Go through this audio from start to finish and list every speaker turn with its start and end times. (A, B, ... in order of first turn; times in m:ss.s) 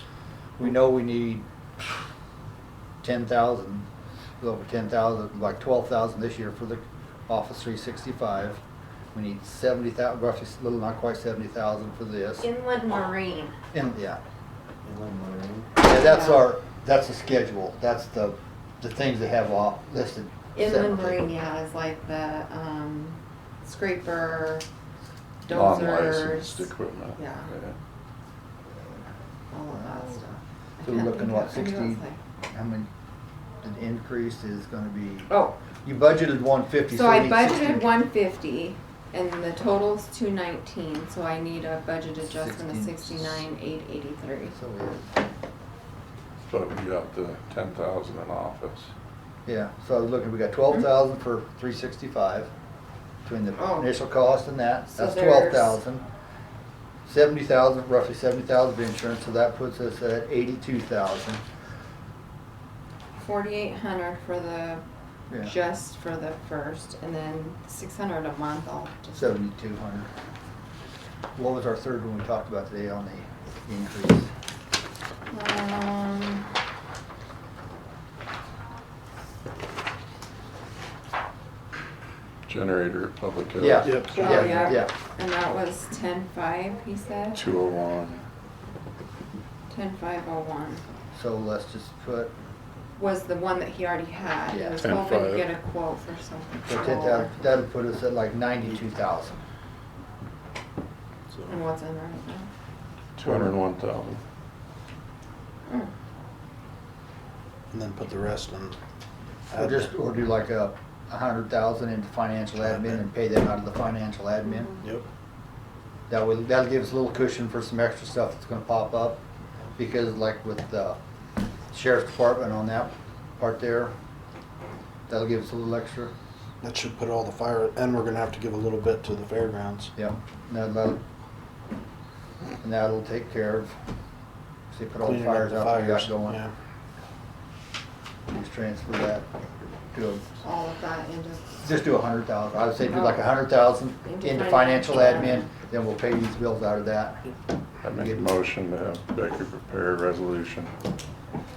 0:00.6-0:01.8 A
0:03.0-0:03.9 A
0:04.4-0:08.6 A
0:09.1-0:12.5 A
0:12.4-0:13.6 B
0:13.7-0:14.2 A
0:15.8-0:21.2 A
0:15.9-0:16.5 B
0:20.5-0:24.6 B
0:25.4-0:27.5 B
0:25.5-0:27.8 C
0:29.5-0:32.2 B
0:29.7-0:30.2 A
0:30.8-0:32.9 A
0:33.6-0:35.3 A
0:35.3-0:35.6 B
0:35.8-0:37.8 A
0:36.8-0:44.6 B
0:42.2-0:43.4 A
0:44.5-0:45.1 A
0:46.4-0:48.9 C
0:49.4-0:52.5 A
0:53.2-0:56.0 A
0:53.6-0:53.9 B
0:54.9-0:55.8 B
0:57.0-1:01.4 A
1:03.2-1:04.8 B
1:05.4-1:09.4 B
1:09.1-1:10.1 A
1:11.4-1:14.3 A
1:15.3-1:16.5 B
1:22.5-1:24.4 C
1:23.6-1:24.9 A
1:23.8-1:24.7 D
1:24.1-1:27.4 B
1:27.3-1:28.2 C
1:29.7-1:30.8 B
1:31.2-1:32.3 A
1:33.0-1:37.5 B
1:34.5-1:34.8 A
1:34.8-1:35.5 C
1:36.7-1:39.4 A
1:41.5-1:42.5 B
1:43.2-1:44.2 C
1:45.7-1:45.9 B
1:47.7-1:48.8 D
1:49.5-1:49.9 D
1:49.5-1:54.8 A
1:52.6-1:53.0 D
1:54.8-1:55.0 D
1:56.1-1:59.2 A
1:59.8-2:01.0 A
2:01.7-2:03.9 A
2:05.1-2:06.1 A
2:06.6-2:09.9 D
2:10.0-2:11.0 A
2:12.6-2:13.7 A
2:14.7-2:16.4 A
2:15.0-2:16.5 D
2:18.3-2:19.3 A
2:19.9-2:20.3 A
2:20.4-2:21.8 B
2:21.6-2:27.3 A
2:22.9-2:23.2 B
2:24.0-2:25.5 B
2:27.8-2:30.7 C
2:27.9-2:28.2 A